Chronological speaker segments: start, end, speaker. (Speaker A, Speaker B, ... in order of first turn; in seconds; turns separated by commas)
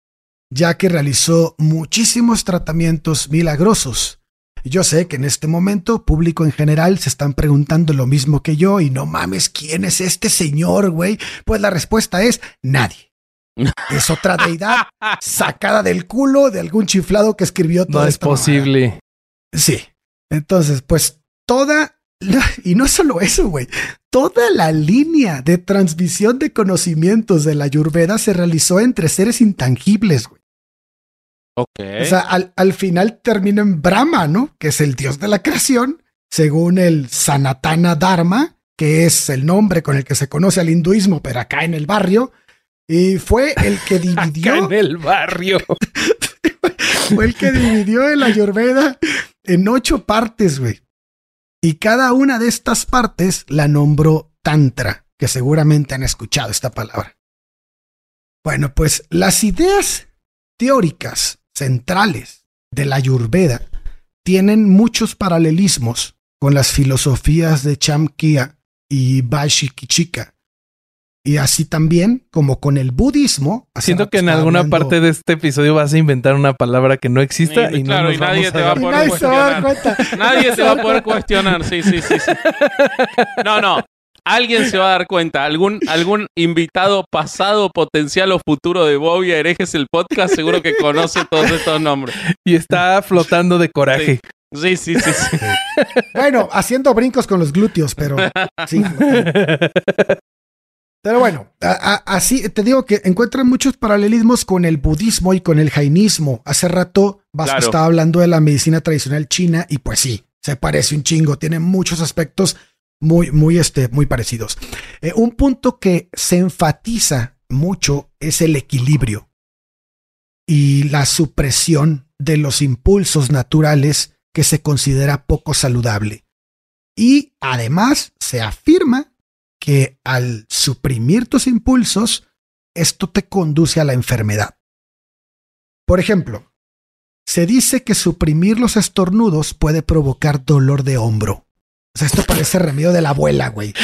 Speaker A: 0.5-13.1, Speaker B: 13.6-13.9, Speaker A: 13.9-18.7, Speaker C: 17.9-19.0, Speaker A: 19.5-30.3, Speaker B: 31.6-32.1, Speaker A: 32.0-42.3, Speaker A: 42.9-44.7, Speaker C: 43.6-45.8, Speaker A: 46.0-50.8, Speaker A: 51.6-57.1, Speaker A: 58.4-60.1, Speaker A: 60.6-63.6, Speaker A: 64.2-70.3, Speaker A: 71.2-74.9, Speaker C: 73.8-81.2, Speaker B: 77.4-82.4, Speaker A: 78.7-81.2, Speaker C: 82.0-83.4, Speaker B: 83.4-92.1, Speaker C: 92.3-94.2, Speaker B: 93.9-95.4, Speaker C: 95.0-96.1, Speaker A: 96.1-99.3, Speaker B: 98.2-98.7, Speaker C: 98.8-100.1, Speaker A: 101.0-119.2, Speaker B: 107.4-107.7, Speaker A: 120.5-126.2, Speaker A: 127.0-129.1, Speaker A: 129.6-132.2, Speaker A: 132.7-134.5, Speaker A: 135.9-136.4, Speaker A: 137.2-141.4, Speaker A: 141.9-143.7